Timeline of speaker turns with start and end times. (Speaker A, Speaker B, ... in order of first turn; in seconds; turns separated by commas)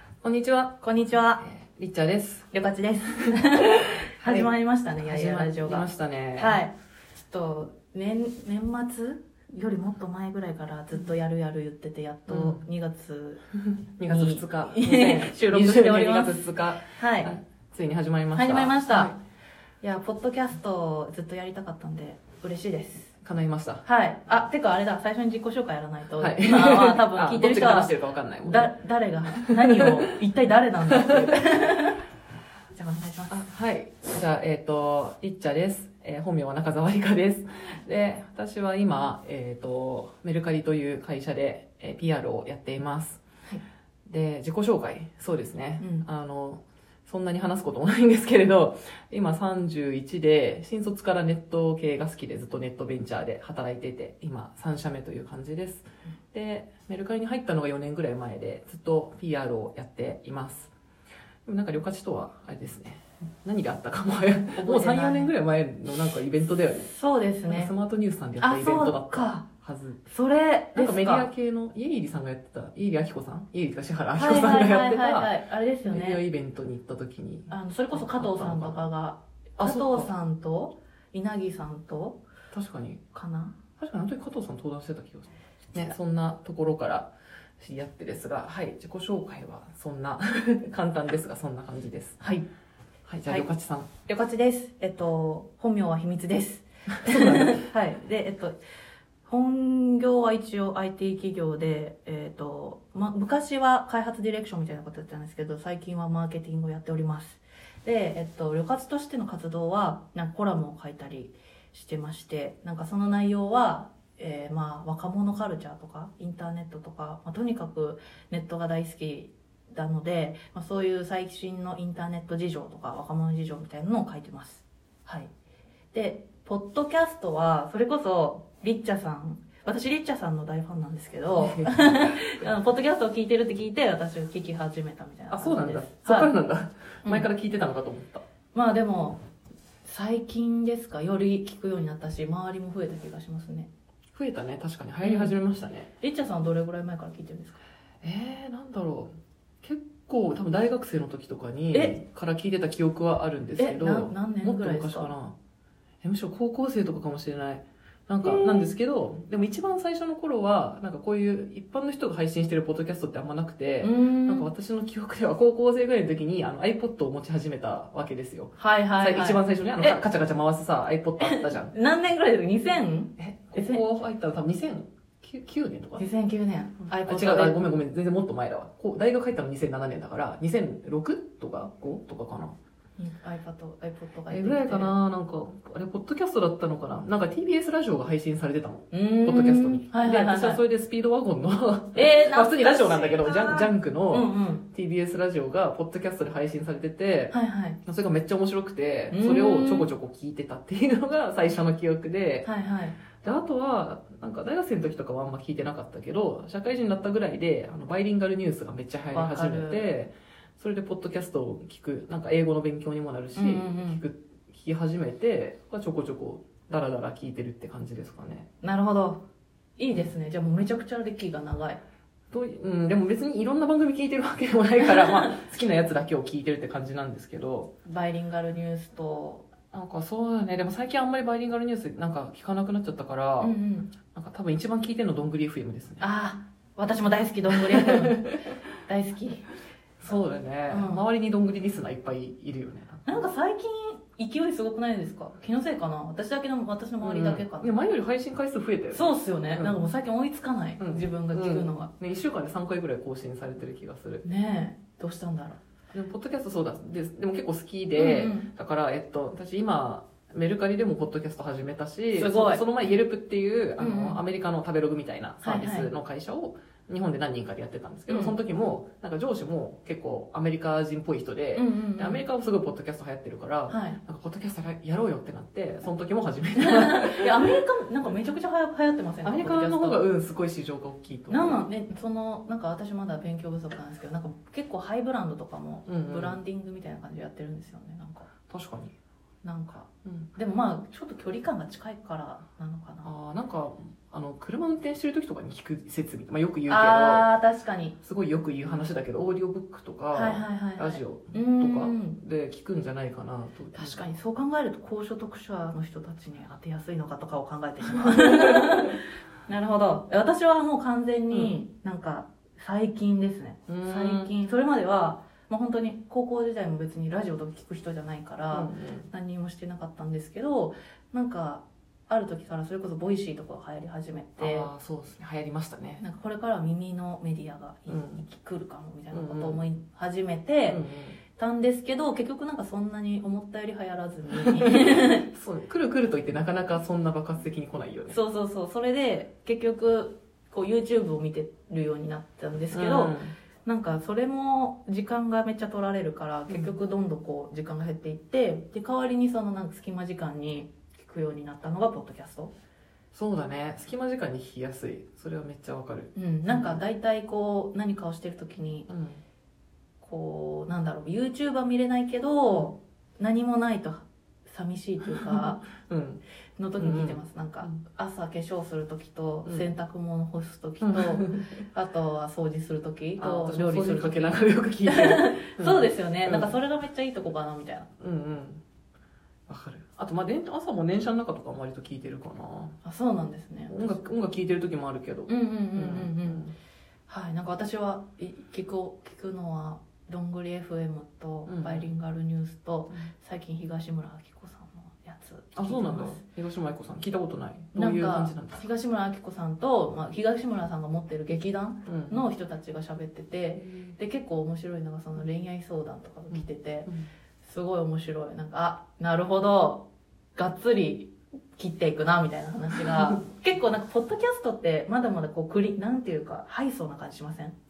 Speaker A: 0.2-0.8, Speaker B: 0.8-1.4, Speaker A: 1.4-2.5, Speaker B: 2.5-6.7, Speaker A: 4.2-6.6, Speaker B: 7.3-13.4, Speaker A: 12.3-12.6, Speaker A: 14.0-19.1, Speaker B: 14.1-17.3, Speaker B: 18.3-19.2, Speaker B: 19.8-23.1, Speaker A: 23.2-23.8, Speaker B: 23.8-27.9, Speaker A: 26.2-28.7, Speaker B: 28.4-32.0, Speaker A: 29.3-30.0, Speaker B: 32.7-33.4, Speaker A: 33.3-43.2, Speaker A: 44.1-60.7, Speaker B: 45.8-46.0, Speaker A: 61.5-66.9, Speaker B: 64.6-65.3, Speaker B: 66.9-67.7, Speaker A: 67.5-70.0, Speaker B: 68.4-69.4, Speaker B: 70.0-71.3, Speaker A: 70.7-78.8, Speaker B: 74.1-76.2, Speaker B: 77.5-82.2, Speaker A: 79.6-80.1, Speaker A: 82.5-83.0, Speaker B: 83.1-83.6, Speaker A: 83.8-92.2, Speaker B: 92.2-92.5, Speaker A: 93.1-93.9, Speaker B: 94.0-98.6, Speaker A: 97.0-97.6, Speaker B: 99.2-125.3, Speaker B: 125.9-136.3, Speaker A: 131.4-132.1, Speaker A: 135.3-138.2, Speaker B: 138.5-139.2, Speaker B: 139.8-143.7, Speaker A: 144.1-145.9, Speaker B: 145.0-145.3, Speaker B: 146.0-147.6, Speaker A: 148.0-149.1, Speaker A: 149.6-155.3, Speaker B: 151.7-152.0, Speaker B: 153.6-155.1, Speaker A: 156.0-171.7, Speaker B: 158.2-158.8, Speaker B: 163.8-164.5, Speaker B: 168.6-170.0, Speaker B: 171.2-173.8, Speaker A: 173.2-176.1, Speaker B: 176.0-177.6, Speaker A: 176.9-182.5, Speaker B: 183.0-184.9, Speaker A: 184.3-202.5, Speaker B: 188.9-190.6, Speaker B: 191.9-194.6, Speaker B: 197.3-197.8, Speaker B: 199.1-199.9, Speaker B: 202.4-203.0, Speaker A: 203.2-218.5, Speaker B: 209.1-209.8, Speaker B: 213.3-214.0, Speaker B: 218.6-219.2, Speaker B: 219.8-221.8, Speaker A: 222.3-227.7, Speaker B: 227.8-229.5, Speaker A: 229.7-233.6, Speaker B: 233.4-233.9, Speaker A: 234.1-236.0, Speaker B: 236.0-238.3, Speaker A: 237.5-238.3, Speaker B: 238.8-239.5, Speaker A: 240.0-243.2, Speaker B: 240.7-241.0, Speaker B: 243.1-247.7, Speaker A: 247.0-249.8, Speaker B: 248.9-251.9, Speaker A: 250.8-254.2, Speaker B: 254.2-255.6, Speaker A: 255.9-277.5, Speaker B: 257.9-258.5, Speaker B: 262.1-262.6, Speaker B: 263.8-264.2, Speaker B: 265.4-265.9, Speaker B: 268.1-268.3, Speaker B: 271.5-272.2, Speaker B: 273.7-274.0, Speaker B: 276.6-280.0, Speaker A: 279.2-281.6, Speaker B: 281.3-288.3, Speaker A: 285.9-286.4, Speaker A: 288.5-288.9, Speaker B: 289.4-293.1, Speaker A: 290.0-290.3, Speaker A: 293.0-297.3, Speaker B: 296.7-298.0, Speaker A: 298.0-304.0, Speaker B: 300.1-302.2, Speaker B: 303.7-324.7, Speaker A: 308.0-308.8, Speaker A: 313.7-314.3, Speaker A: 318.5-319.1, Speaker A: 324.4-326.0, Speaker B: 326.0-330.8, Speaker A: 327.9-328.2, Speaker A: 329.1-329.6, Speaker A: 330.7-331.2, Speaker B: 331.3-335.2, Speaker A: 334.6-338.2, Speaker B: 338.1-352.5, Speaker A: 342.7-343.3, Speaker A: 353.1-356.8, Speaker B: 356.1-358.9, Speaker A: 358.9-359.2, Speaker B: 360.0-365.6, Speaker A: 365.1-366.2, Speaker B: 366.6-377.9, Speaker A: 366.8-367.7, Speaker A: 370.8-371.5, Speaker A: 373.2-376.5, Speaker A: 378.0-378.6, Speaker A: 379.5-382.8, Speaker B: 382.8-384.0, Speaker A: 383.7-386.5, Speaker B: 385.3-386.4, Speaker B: 387.1-396.2, Speaker A: 391.5-391.9, Speaker A: 395.5-398.6, Speaker B: 397.7-406.9, Speaker A: 401.9-402.2, Speaker A: 403.6-403.9, Speaker A: 406.3-407.1, Speaker B: 407.4-409.8, Speaker B: 410.4-417.5